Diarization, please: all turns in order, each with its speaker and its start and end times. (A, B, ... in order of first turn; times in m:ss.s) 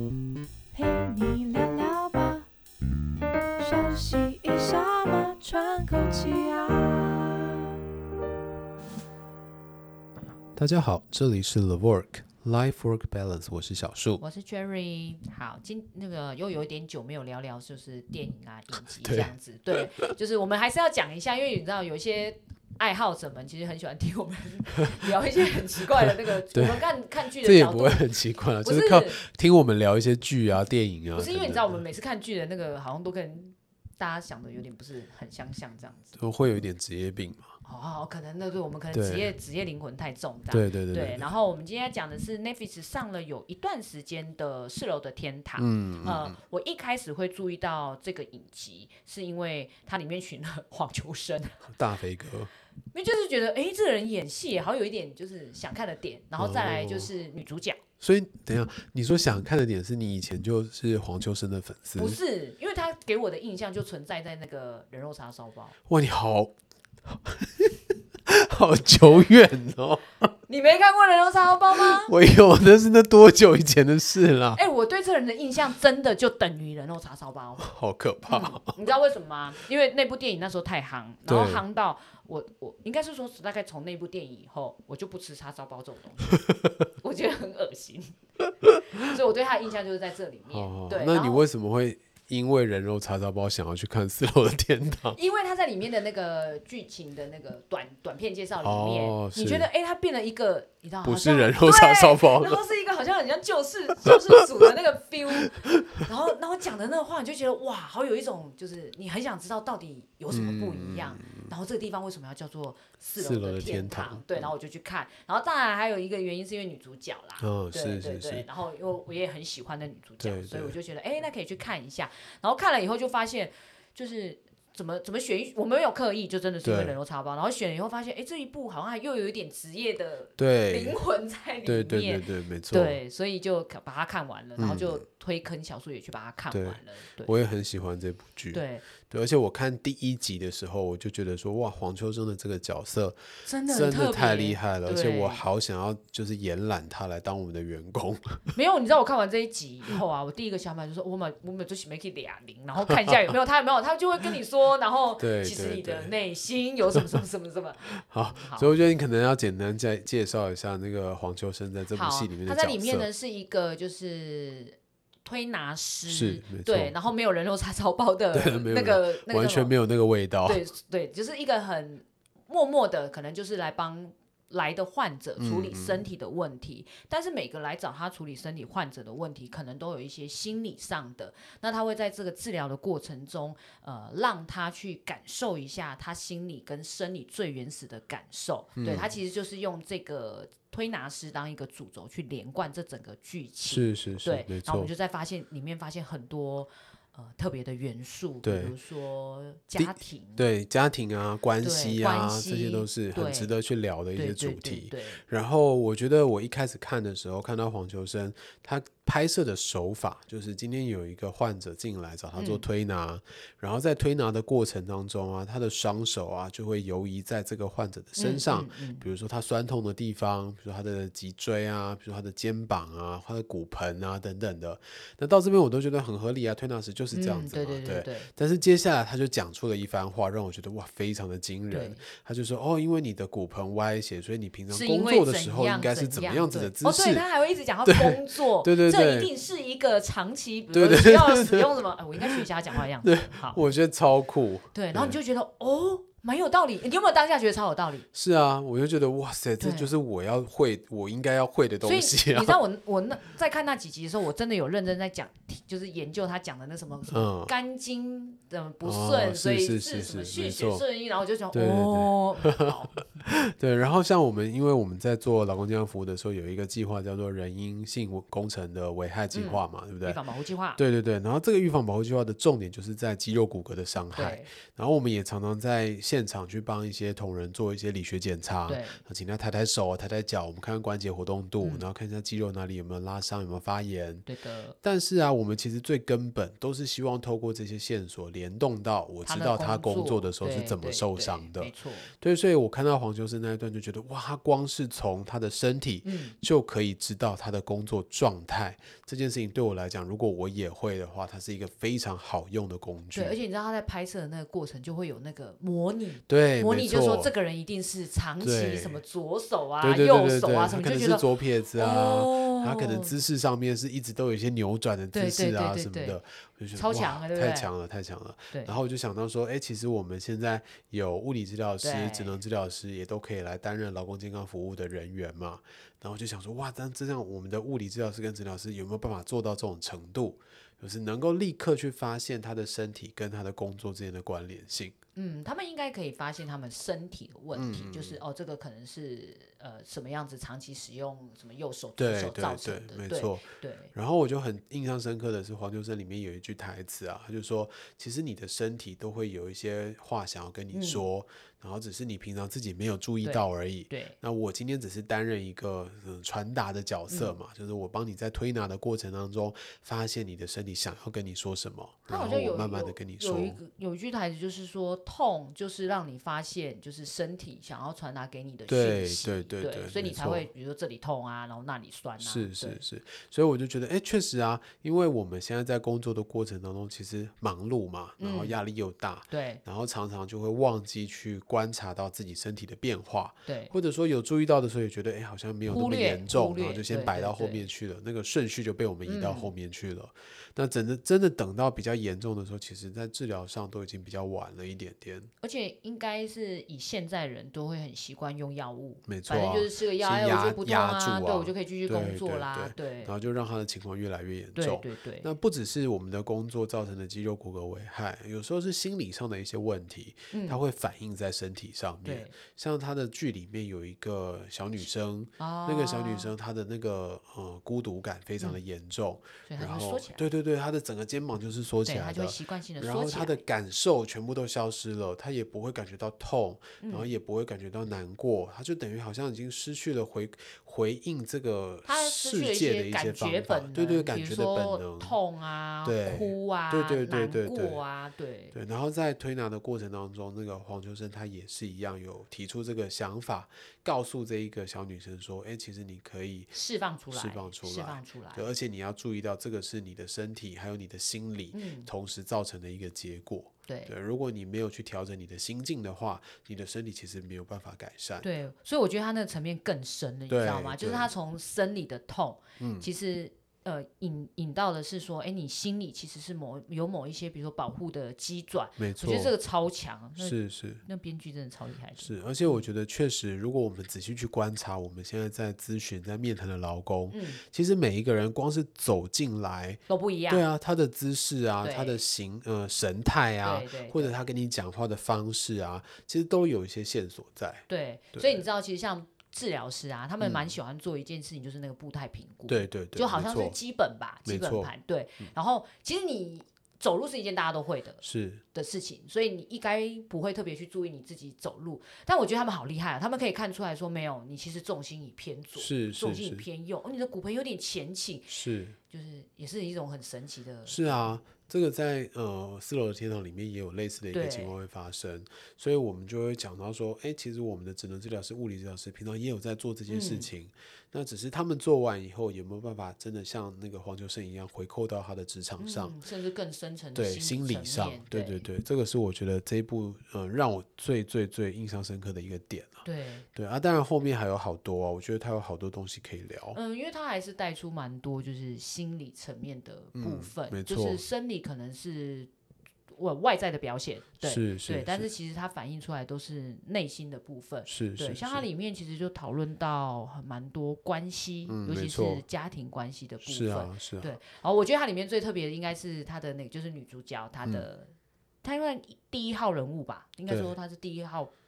0:00.7-0:02.4 A
0:03.6-0:07.7 A
0:10.5-0:14.2 B
0:14.2-0:29.2 C
0:19.0-0:20.1 B
0:26.5-0:31.8 B
0:31.1-0:36.2 C
0:36.2-0:37.5 B
0:37.6-0:51.7 C
0:38.9-0:39.3 B
0:40.5-0:41.3 B
0:45.6-0:46.4 B
0:51.7-0:52.5 B
0:52.9-0:57.8 C
0:56.4-0:57.1 B
0:58.0-1:02.2 B
1:02.0-1:05.8 C
1:05.9-1:06.5 B
1:07.1-1:10.1 B
1:10.5-1:12.1 C
1:11.8-1:14.6 B
1:14.5-1:17.7 C
1:17.6-1:18.8 B
1:18.3-1:26.4 C
1:21.3-1:21.6 B
1:27.0-1:28.2 C
1:29.0-1:31.4 C
1:30.5-1:35.2 B
1:35.1-2:17.3 C
1:38.6-1:39.7 B
1:41.0-1:42.6 B
1:50.3-1:51.5 B
1:53.2-1:54.5 B
1:57.4-1:58.5 B
2:00.2-2:00.8 B
2:06.6-2:07.0 B
2:10.4-2:11.0 B
2:11.6-2:13.0 B
2:14.6-2:15.0 B
2:16.5-2:28.5 B
2:18.5-2:18.8 C
2:23.4-2:25.4 C
2:28.5-2:38.7 C
2:35.2-2:36.1 B
2:36.9-2:37.2 B
2:37.9-2:43.1 B
2:41.9-2:49.7 C
2:46.0-2:47.0 B
2:48.3-2:50.6 B
2:50.4-3:20.4 C
2:55.4-2:56.0 B
3:08.8-3:09.1 B
3:13.7-3:14.9 B
3:18.4-3:18.7 B
3:19.8-3:57.2 B
3:21.6-3:23.5 C
3:24.1-3:25.2 C
3:32.3-3:32.6 C
3:38.2-3:39.0 C
3:47.1-3:48.3 C
3:51.7-3:52.0 C
3:54.7-4:03.6 C
3:57.8-3:59.3 B
4:00.7-4:02.4 B
4:03.0-4:05.2 B
4:04.7-4:08.1 C
4:08.1-4:12.6 B
4:09.6-4:09.9 C
4:11.8-4:23.2 C
4:17.1-4:17.5 B
4:18.8-4:20.8 B
4:21.5-4:22.7 B
4:23.2-4:30.2 B
4:29.3-4:30.8 C
4:30.8-4:44.3 B
4:34.1-4:34.5 C
4:38.6-4:39.0 C
4:41.6-4:41.8 C
4:44.2-4:44.8 C
4:44.8-5:03.4 B
4:49.2-4:52.1 C
4:56.0-4:56.4 C
5:03.1-5:13.1 C
5:06.3-5:07.3 B
5:08.4-5:09.0 B
5:09.8-5:34.9 B
5:15.1-5:16.2 C
5:16.7-5:17.7 C
5:18.5-5:18.8 C
5:21.8-5:22.4 C
5:35.1-5:43.9 C
5:37.5-5:38.2 B
5:42.0-6:03.6 B
5:50.7-5:51.0 C
5:53.2-5:54.1 C
5:57.1-5:57.3 C
6:02.1-6:12.8 C
6:08.7-6:10.5 B
6:12.2-6:35.3 B
6:18.2-6:18.6 C
6:19.3-6:19.6 C
6:23.4-6:23.7 C
6:25.7-6:27.7 C
6:29.0-6:29.5 C
6:35.4-6:43.1 C
6:39.1-7:15.2 B
6:44.5-6:45.3 C
6:50.3-6:50.6 C
6:52.0-6:52.3 C
6:55.4-6:56.3 C
6:59.5-7:00.2 C
7:01.8-7:03.4 C
7:06.8-7:07.1 C
7:11.8-7:18.6 C
7:15.8-7:17.8 B
7:18.5-7:26.5 B
7:26.5-7:28.5 C
7:27.1-7:38.3 B
7:31.5-7:31.9 C
7:33.7-7:33.9 C
7:38.2-7:52.6 C
7:40.3-7:41.1 B
7:42.6-7:42.9 B
7:48.8-7:49.3 B
7:50.2-7:50.8 B
7:52.0-8:08.4 B
7:57.1-7:57.4 C
7:59.9-8:00.4 C
8:01.6-8:02.0 C
8:03.4-8:04.1 C
8:07.7-8:18.0 C
8:10.2-8:10.5 B
8:12.5-8:13.6 B
8:14.2-8:15.3 B
8:18.0-8:18.4 B
8:18.5-8:28.3 C
8:25.6-8:26.4 B
8:28.3-8:28.8 B
8:28.9-8:31.1 C
8:30.6-8:46.0 B
8:34.1-8:34.5 C
8:39.9-8:40.3 C
8:45.6-8:48.5 C
8:46.9-8:56.6 B
8:52.8-8:53.3 C
8:56.5-9:02.3 C
8:59.9-9:01.0 B
9:02.9-9:17.9 C
9:04.2-9:05.1 B
9:07.6-9:08.4 B
9:11.5-9:12.2 B
9:13.2-9:14.1 B
9:18.4-9:21.3 C
9:20.3-9:20.6 B